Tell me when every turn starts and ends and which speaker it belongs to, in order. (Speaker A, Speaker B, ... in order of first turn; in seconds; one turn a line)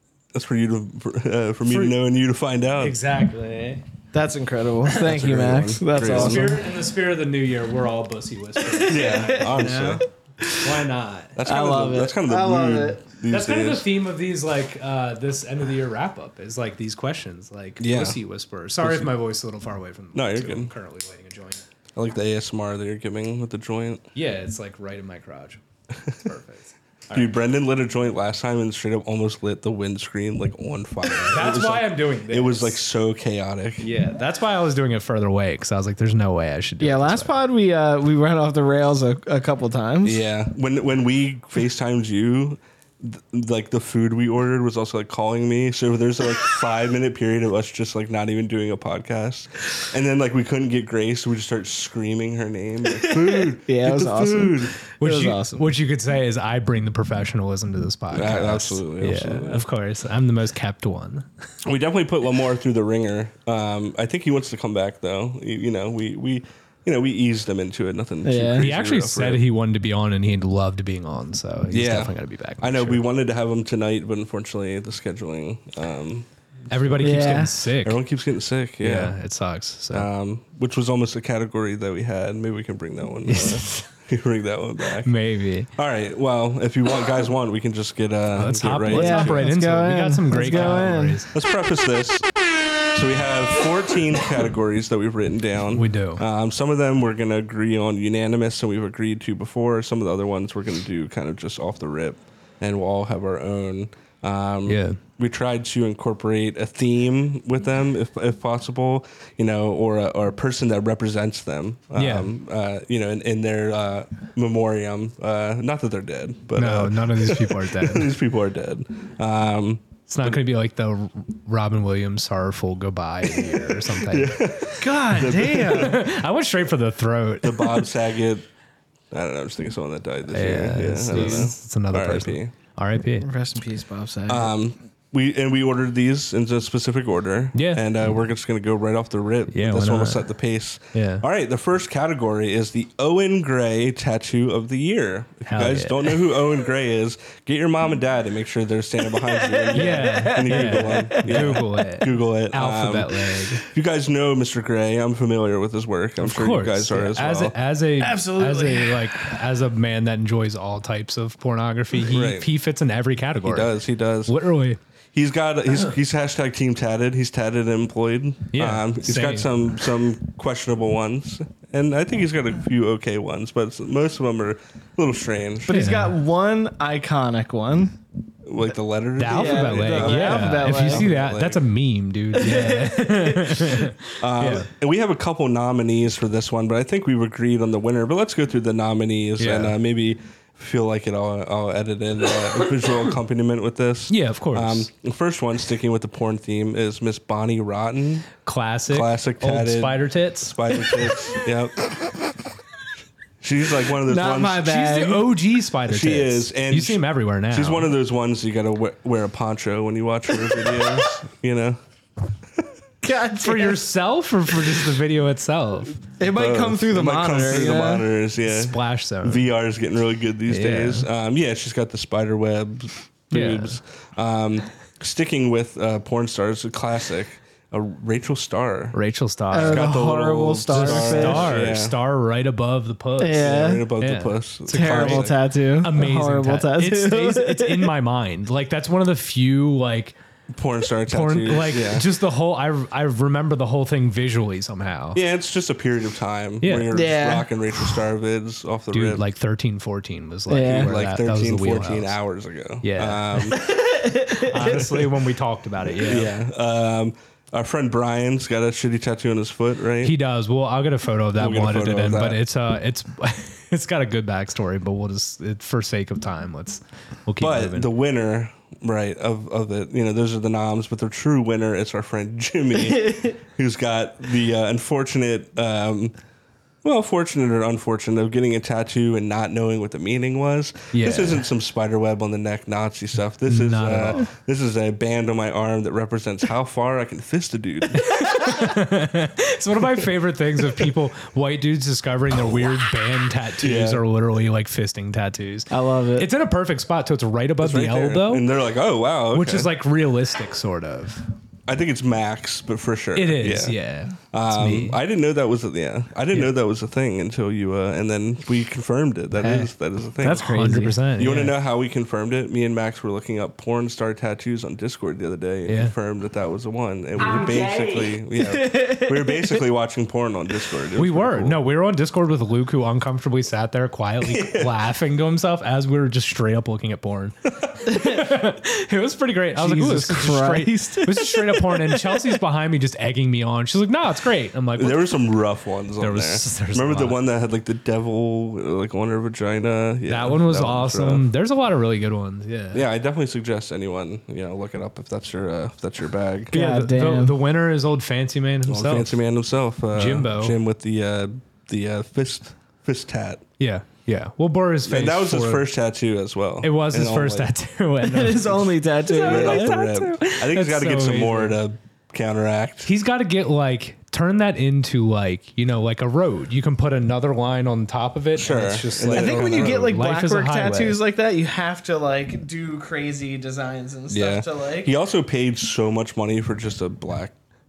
Speaker A: 0.3-3.0
Speaker B: 1.7-1.9
Speaker B: 2.8-3.8
Speaker C: 4.1-6.6
Speaker A: 5.0-6.5
Speaker B: 6.0-11.3
Speaker C: 8.8-9.4
Speaker A: 8.9-10.0
Speaker C: 10.4-10.8
Speaker A: 11.4-13.8
Speaker C: 11.4-13.0
Speaker B: 13.3-21.6
Speaker A: 17.8-18.2
Speaker A: 18.8-19.1
Speaker A: 20.1-20.7
Speaker A: 22.0-24.1
Speaker B: 24.1-25.6
Speaker B: 26.2-27.3
Speaker A: 27.1-33.9
Speaker B: 31.2-32.8
Speaker B: 33.8-37.3
Speaker C: 36.8-40.2
Speaker A: 40.0-54.8
Speaker C: 53.1-55.7
Speaker B: 55.0-61.3
Speaker A: 58.1-59.6
Speaker A: 61.6-69.4
Speaker C: 68.2-68.6
Speaker B: 68.6-73.0
Speaker A: 71.7-77.2
Speaker B: 76.7-78.0
Speaker C: 77.0-77.5
Speaker A: 77.8-79.2
Speaker B: 78.8-80.1
Speaker A: 79.9-85.2
Speaker B: 83.3-83.8
Speaker B: 85.0-85.7
Speaker A: 85.8-89.4
Speaker B: 88.4-91.3
Speaker C: 88.9-91.2
Speaker A: 91.3-92.3
Speaker A: 92.9-120.4
Speaker B: 95.7-96.2
Speaker B: 104.7-105.0
Speaker B: 112.0-112.3
Speaker B: 116.6-118.1
Speaker B: 120.1-124.3
Speaker A: 123.3-126.1
Speaker C: 124.8-126.0
Speaker B: 125.6-127.9
Speaker A: 127.4-128.4
Speaker A: 129.1-132.5
Speaker B: 130.3-133.3
Speaker C: 133.2-134.5
Speaker A: 134.3-157.6
Speaker B: 137.6-137.8
Speaker B: 139.5-140.3
Speaker B: 140.9-141.2
Speaker B: 145.5-146.2
Speaker C: 149.4-151.9
Speaker B: 149.7-153.7
Speaker B: 156.2-163.7
Speaker C: 158.0-159.3
Speaker A: 162.1-162.5
Speaker A: 163.4-164.4
Speaker B: 164.3-164.8
Speaker A: 165.1-175.9
Speaker B: 168.5-169.5
Speaker C: 175.7-178.0
Speaker B: 175.7-176.2
Speaker A: 178.5-181.6
Speaker B: 179.2-184.7
Speaker C: 179.3-181.1
Speaker C: 182.3-183.9
Speaker A: 184.2-198.3
Speaker B: 189.4-189.8
Speaker B: 194.1-194.9
Speaker B: 198.4-200.7
Speaker A: 198.9-201.8
Speaker A: 203.4-204.8
Speaker C: 204.1-205.3
Speaker B: 204.6-207.9
Speaker A: 205.9-211.8
Speaker C: 213.0-213.8
Speaker B: 213.4-216.0
Speaker C: 216.2-218.1
Speaker A: 216.3-229.0
Speaker B: 218.4-219.4
Speaker B: 220.5-221.1
Speaker B: 223.3-223.8
Speaker B: 228.9-229.9
Speaker C: 229.5-231.6
Speaker A: 229.6-231.9
Speaker B: 230.7-240.2
Speaker C: 233.2-233.9
Speaker A: 233.3-235.4
Speaker C: 234.7-237.9
Speaker A: 240.5-242.1
Speaker B: 241.1-245.2
Speaker A: 245.2-249.2
Speaker B: 246.6-246.9
Speaker C: 246.9-247.5
Speaker B: 248.9-252.2
Speaker C: 250.5-250.9
Speaker A: 250.6-253.7
Speaker B: 252.8-253.6
Speaker C: 253.6-255.1
Speaker B: 254.4-256.3
Speaker A: 256.0-260.1
Speaker B: 260.0-267.9
Speaker A: 261.4-262.4
Speaker A: 267.4-276.1
Speaker C: 272.8-273.4
Speaker A: 276.8-288.1
Speaker B: 280.9-281.4
Speaker B: 283.5-284.2
Speaker B: 287.9-298.5
Speaker A: 293.6-294.0
Speaker C: 295.7-296.3
Speaker A: 297.6-299.7
Speaker B: 299.3-301.3
Speaker A: 301.7-303.8
Speaker B: 303.1-305.0
Speaker A: 304.3-310.5
Speaker C: 309.4-309.7
Speaker C: 310.2-311.0
Speaker B: 310.2-311.5
Speaker A: 311.2-321.6
Speaker B: 315.7-315.9
Speaker C: 317.5-319.6
Speaker B: 321.0-335.2
Speaker A: 324.3-324.7
Speaker C: 327.9-328.2
Speaker C: 329.6-332.4
Speaker A: 334.8-341.2
Speaker B: 336.0-337.2
Speaker B: 340.1-342.9
Speaker A: 342.7-346.6
Speaker C: 346.5-347.4
Speaker B: 346.5-349.2
Speaker A: 348.7-353.4
Speaker B: 349.9-350.6
Speaker B: 353.6-355.7
Speaker A: 354.9-357.5
Speaker B: 356.6-361.6
Speaker C: 358.0-359.8
Speaker A: 359.1-362.9
Speaker B: 362.9-371.0
Speaker A: 368.4-370.0
Speaker C: 369.1-374.9
Speaker A: 374.1-377.4